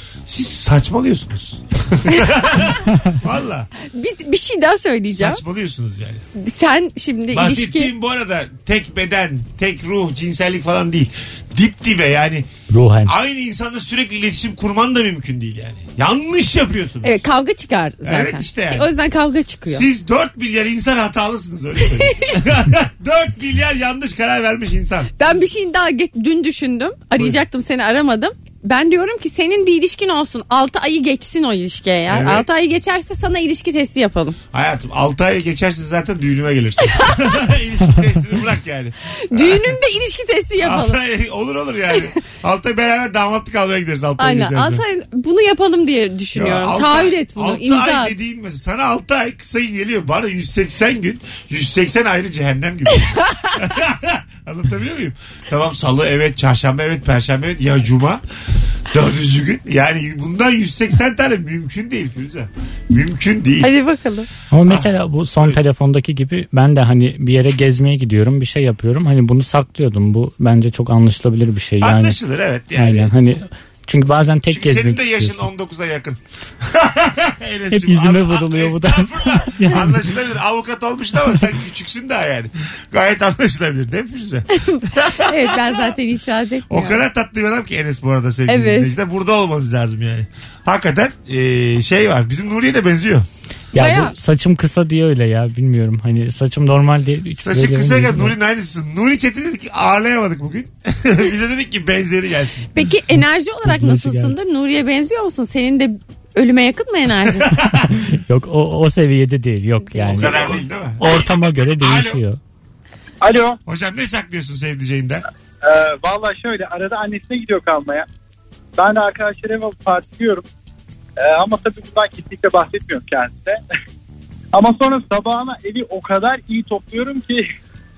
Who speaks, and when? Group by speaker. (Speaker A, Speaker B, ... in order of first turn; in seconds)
Speaker A: 0.3-3.7, 5.1-6.2, 7.3-12.5, 13.1-17.2, 18.0-18.9, 19.7-25.1, 32.1-32.5, 34.5-39.8, 40.6-44.8, 46.3-58.2, 58.9-63.8, 64.7-65.6, 71.8-73.1, 74.5-85.9, 86.7-93.3, 97.4-102.7, 107.4-107.9, 110.1-111.2, 111.8-112.2, 113.7-115.2
Speaker B: 3.9-5.4, 6.4-7.9, 17.0-19.9, 25.2-34.4, 39.3-41.0, 44.2-48.1, 63.6-64.3, 84.5-87.0, 88.5-88.9, 93.8-94.2, 102.8-107.5, 109.8-110.6
Speaker C: 12.7-13.1, 64.5-72.2, 72.7-75.4, 77.7-80.1, 93.7-98.3, 103.7-104.4, 107.9-112.4
Speaker D: 113.2-113.6, 115.6-118.1, 118.8-120.5, 121.2-123.6, 124.5-127.4